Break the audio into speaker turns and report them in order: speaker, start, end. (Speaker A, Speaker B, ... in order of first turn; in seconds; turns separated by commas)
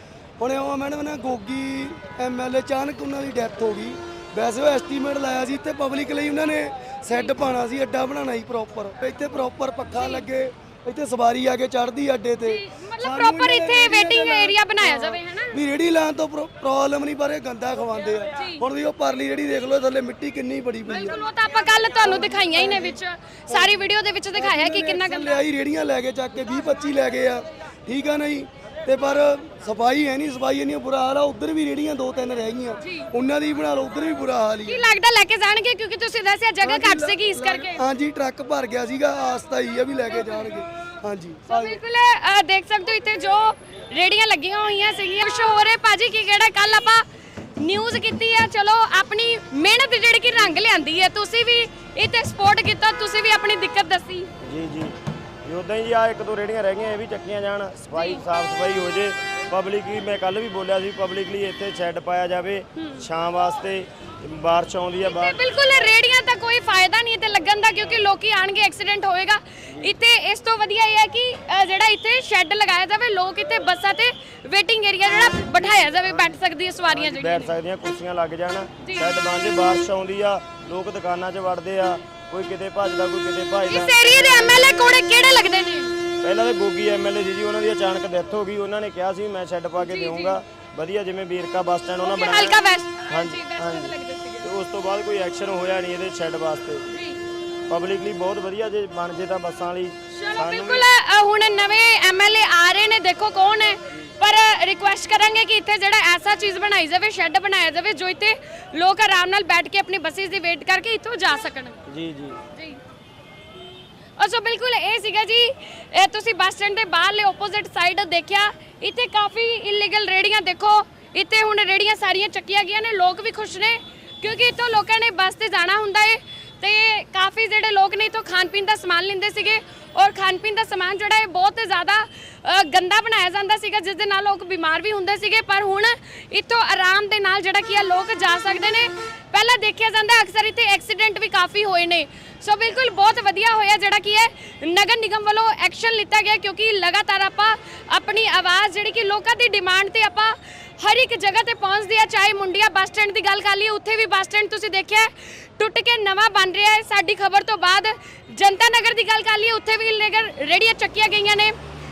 Speaker A: 0.4-21.2, Speaker B: 9.9-10.3, Speaker B: 12.4-15.6, Speaker B: 18.3-18.6, Speaker B: 20.9-25.4, Speaker A: 22.0-34.9, Speaker B: 32.8-33.1, Speaker B: 34.6-37.8, Speaker A: 36.6-41.8, Speaker B: 40.1-40.5, Speaker B: 41.5-47.0, Speaker B: 47.6-54.3, Speaker C: 54.4-65.4, Speaker B: 57.9-58.2, Speaker B: 62.8-63.0, Speaker B: 65.0-77.5, Speaker C: 69.7-70.0, Speaker C: 75.5-84.0, Speaker B: 78.8-79.2, Speaker B: 83.7-86.0, Speaker C: 86.2-96.8, Speaker B: 89.8-90.4, Speaker B: 92.0-94.5, Speaker B: 96.9-97.2, Speaker C: 97.7-100.9, Speaker B: 100.1-111.8, Speaker C: 111.9-112.4, Speaker B: 112.5-112.8, Speaker B: 114.2-161.5